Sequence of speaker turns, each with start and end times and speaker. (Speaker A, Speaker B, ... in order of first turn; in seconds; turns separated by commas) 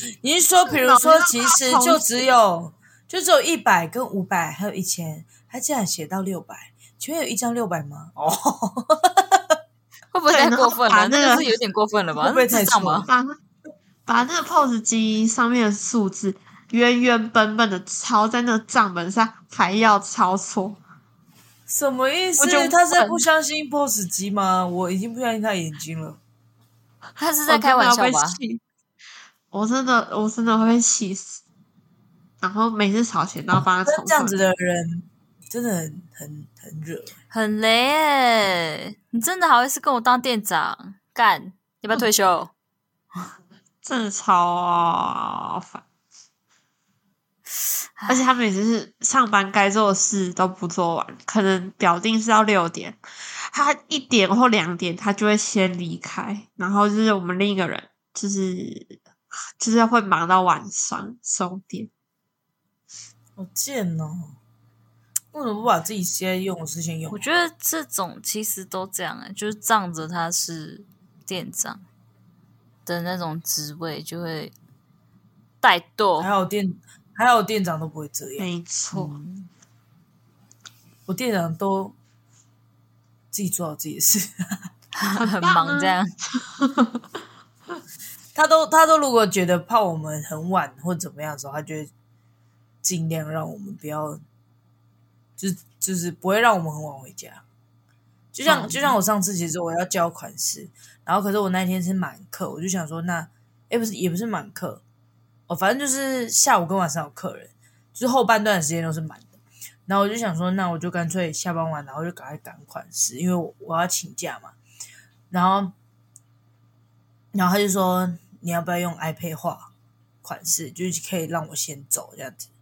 Speaker A: 0.2-9.6, Speaker B: 0.7-2.1, Speaker C: 10.1-13.1, Speaker B: 10.3-11.6, Speaker A: 12.2-13.1, Speaker B: 13.1-13.4, Speaker B: 14.1-20.8, Speaker A: 21.7-26.2, Speaker B: 22.4-23.2, Speaker C: 27.2-28.4, Speaker B: 27.5-28.6, Speaker B: 29.5-31.4, Speaker B: 32.4-34.4, Speaker A: 33.9-37.1, Speaker C: 37.3-42.5, Speaker B: 43.8-45.8, Speaker C: 48.0-48.2, Speaker B: 48.1-59.0, Speaker B: 59.6-61.9, Speaker A: 63.4-64.4, Speaker A: 65.3-67.3, Speaker C: 67.1-71.8, Speaker C: 72.9-74.5, Speaker C: 75.6-76.3, Speaker A: 76.2-78.5, Speaker B: 78.4-79.2, Speaker C: 78.9-79.5, Speaker A: 81.1-82.0, Speaker A: 83.3-84.6, Speaker C: 85.0-86.1, Speaker B: 85.2-87.0, Speaker A: 88.3-91.9, Speaker A: 92.8-94.2, Speaker A: 95.4-97.4, Speaker A: 98.3-104.8, Speaker B: 98.5-98.9, Speaker A: 105.5-109.3, Speaker A: 109.9-114.5, Speaker A: 115.3-115.8, Speaker A: 117.3-119.7, Speaker A: 120.2-122.5